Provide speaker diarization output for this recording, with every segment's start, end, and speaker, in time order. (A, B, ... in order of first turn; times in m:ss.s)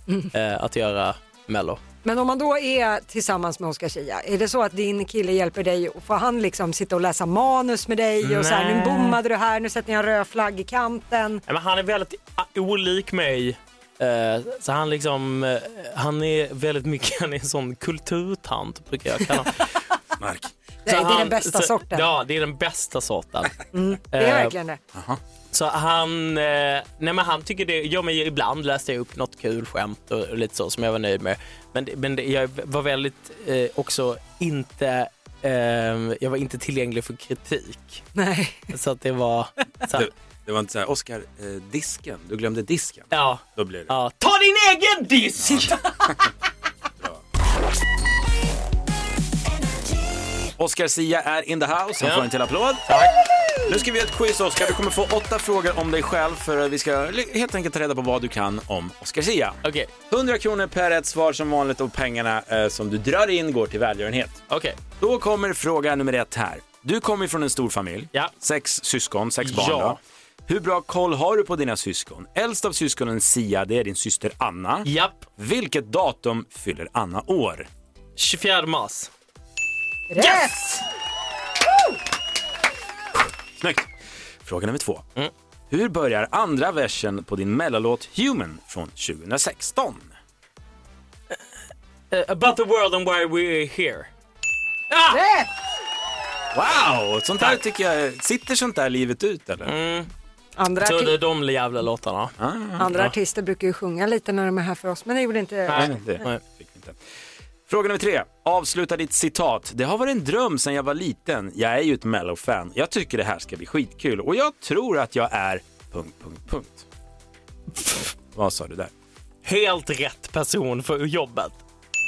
0:00.3-0:01.8 A
0:02.0-0:11.4 B
0:08.2-0:09.2 A
0:11.5-0:19.6 A
0:20.2-0:20.5 C
0:20.8-0:22.1 B
0:20.9-0:23.6 A
0:23.7-0:24.8 B
0:24.1-0:24.5 A
0:24.9-0:25.2 C
0:25.5-0:38.0 A
0:38.1-0:38.7 B
0:38.7-0:40.1 A
0:39.9-0:43.9 C
0:43.1-0:45.8 A
0:45.4-0:46.1 C
0:50.6-0:53.0 C
0:52.0-0:52.3 A
0:52.9-0:53.2 A
0:53.6-1:04.4 C
0:59.6-0:59.9 A
1:04.5-1:04.8 A
1:05.0-1:17.7 C
1:09.4-1:10.0 A
1:14.8-1:15.3 A
1:18.2-1:19.1 A
1:20.1-1:20.8 B
1:20.2-1:20.5 A
1:23.6-1:23.9 C
1:24.4-1:25.0 C
1:25.7-1:30.1 C
1:32.1-1:34.1 A
1:34.9-1:35.2 A
1:35.1-1:35.5 B
1:36.5-1:39.7 C
1:39.6-1:40.1 A
1:40.6-1:41.2 B
1:40.8-1:42.3 A
1:42.4-1:43.0 C
1:42.8-1:45.9 B
1:45.7-1:46.4 A
1:45.7-1:47.0 C
1:47.7-1:56.8 C
1:58.3-1:58.9 C
1:59.4-2:01.6 A